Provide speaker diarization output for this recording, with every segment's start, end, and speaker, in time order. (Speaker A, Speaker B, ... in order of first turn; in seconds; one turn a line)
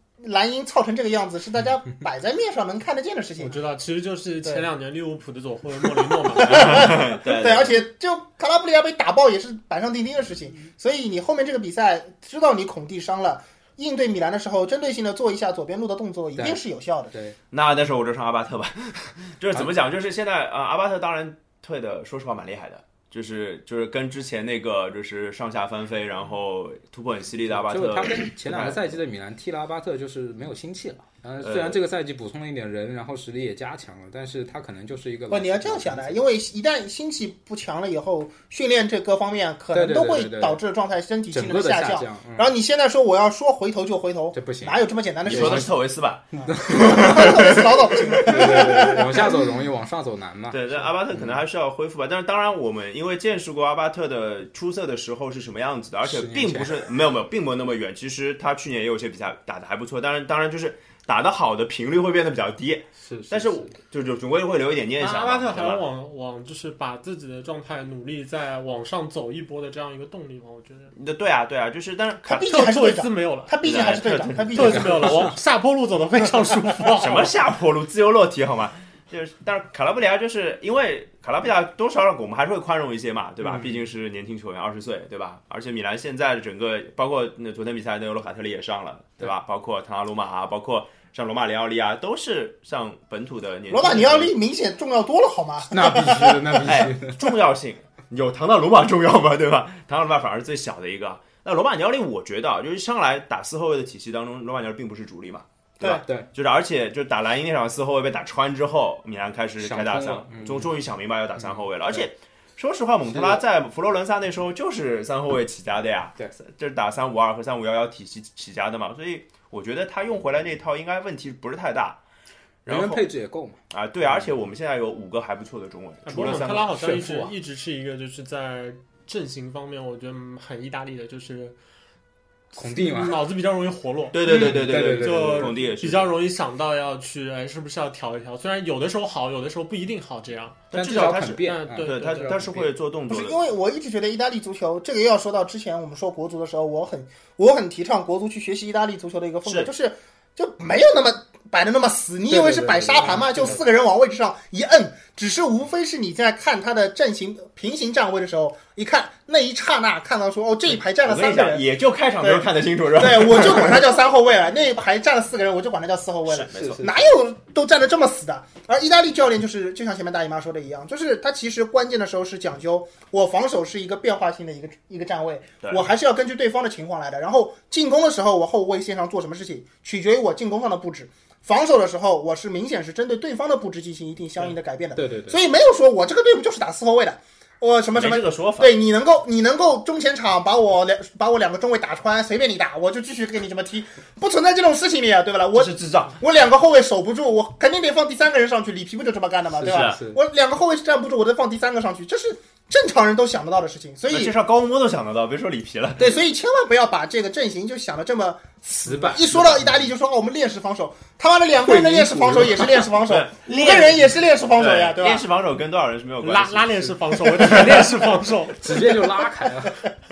Speaker A: 0.2-3.6
Speaker B: 3.4-6.9
Speaker A: 6.4-17.1
Speaker C: 6.4-7.8
Speaker D: 17.1-17.4
Speaker C: 17.5-29.0
Speaker D: 27.5-36.2
Speaker C: 31.4-31.8
Speaker A: 35.3-45.7
Speaker D: 39.7-40.6
Speaker D: 41.3-42.5
Speaker D: 44.3-45.7
Speaker C: 45.2-49.3
Speaker D: 46.3-47.5
Speaker A: 46.4-49.3
Speaker D: 48.1-51.4
Speaker C: 50.5-65.8
Speaker D: 56.0-56.9
Speaker D: 63.0-63.7
Speaker B: 65.0-70.9
Speaker C: 70.9-72.5
Speaker A: 72.2-75.3
Speaker B: 72.4-73.6
Speaker C: 73.6-74.8
Speaker B: 74.5-77.3
Speaker D: 74.7-75.3
Speaker C: 76.9-94.3
Speaker D: 83.4-83.8
Speaker A: 93.7-96.7
Speaker D: 95.7-97.2
Speaker C: 96.6-122.0
Speaker D: 105.8-106.3
Speaker D: 109.6-110.7
Speaker D: 111.4-112.1
Speaker D: 113.1-113.4
Speaker C: 122.6-123.0
Speaker D: 122.7-124.3
Speaker C: 123.7-126.7
Speaker B: 126.0-131.6
Speaker D: 126.7-127.3
Speaker D: 132.5-133.2
Speaker B: 132.6-140.6
Speaker C: 134.1-136.1
Speaker D: 134.2-135.5
Speaker C: 140.7-143.4
Speaker D: 140.7-142.7
Speaker B: 141.4-142.4
Speaker A: 143.1-161.6
Speaker C: 149.4-149.7
Speaker D: 152.3-153.6
Speaker C: 161.0-163.9
Speaker A: 162.2-204.3
Speaker C: 166.2-167.1
Speaker D: 166.5-167.0
Speaker C: 175.6-175.9
Speaker D: 184.4-185.4
Speaker C: 187.9-188.8
Speaker C: 195.5-196.2
Speaker D: 199.6-200.2
Speaker C: 199.6-200.0
Speaker C: 204.1-206.2
Speaker A: 206.0-215.2
Speaker D: 208.8-209.8
Speaker D: 211.6-212.9
Speaker C: 213.0-218.0
Speaker B: 216.2-218.8
Speaker D: 218.6-219.8